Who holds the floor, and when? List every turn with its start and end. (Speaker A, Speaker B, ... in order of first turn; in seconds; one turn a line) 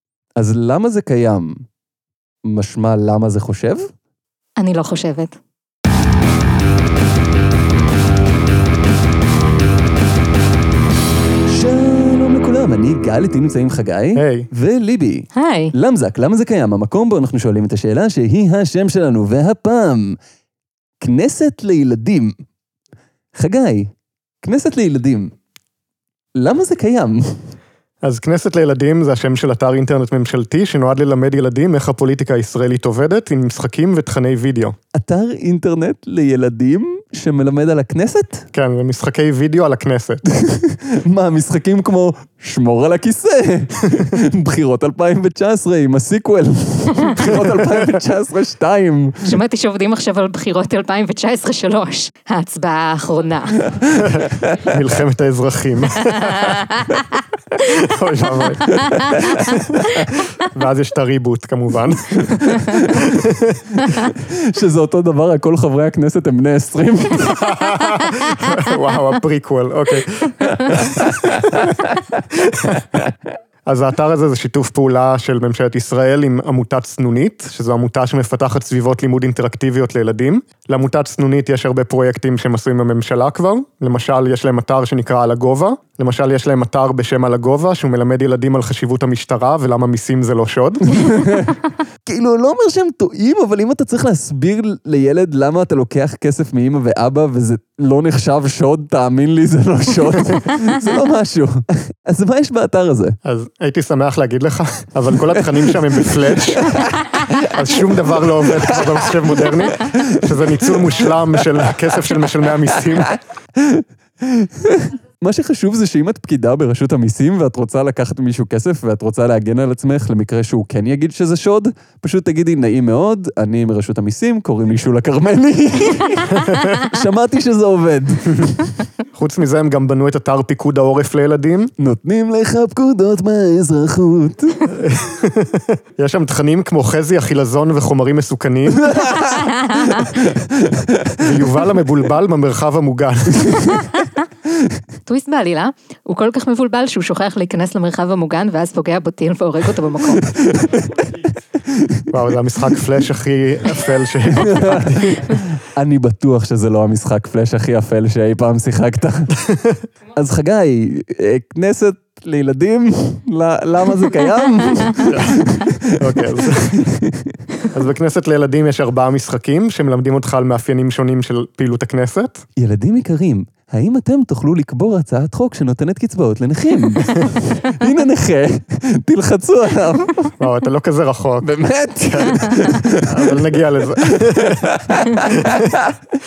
Speaker A: 0.4-1.7
Speaker A: 2.5-3.9
Speaker B: 4.6-5.4
Speaker A: 11.5-20.2
Speaker C: 14.2-14.5
Speaker B: 15.3-15.7
Speaker A: 21.0-22.4
Speaker A: 23.4-25.3
Speaker A: 26.4-27.6
Speaker C: 28.0-34.8
Speaker A: 34.9-38.5
Speaker C: 38.5-40.2
Speaker A: 40.4-49.4
Speaker C: 47.3-47.9
Speaker B: 49.2-53.6
Speaker A: 53.9-54.6
Speaker C: 54.0-56.6
Speaker B: 56.5-56.8
Speaker C: 57.5-63.6
Speaker A: 58.7-60.0
Speaker A: 62.4-63.0
Speaker A: 63.8-67.6
Speaker C: 67.4-71.7
Speaker A: 70.4-72.2
Speaker C: 72.3-72.9
Speaker C: 73.7-91.0
Speaker A: 90.9-103.2
Speaker C: 103.2-106.8
Speaker A: 105.3-107.5
Speaker C: 107.3-113.1
Speaker A: 108.7-112.0
Speaker A: 113.6-128.8
Speaker C: 126.4-126.7
Speaker C: 129.2-131.7
Speaker A: 131.8-134.6
Speaker C: 134.7-138.9
Speaker A: 138.8-139.5
Speaker B: 139.4-140.1
Speaker A: 140.1-141.2
Speaker C: 141.2-143.9
Speaker B: 145.1-150.3
Speaker A: 150.2-152.1
Speaker C: 152.1-155.4
Speaker A: 154.3-159.4
Speaker C: 159.5-159.8
Speaker A: 160.2-167.4
Speaker C: 165.1-165.4
Speaker C: 165.9-166.9
Speaker C: 167.7-172.4
Speaker A: 172.6-180.3
Speaker C: 180.4-184.7
Speaker A: 181.4-186.0
Speaker C: 185.3-185.7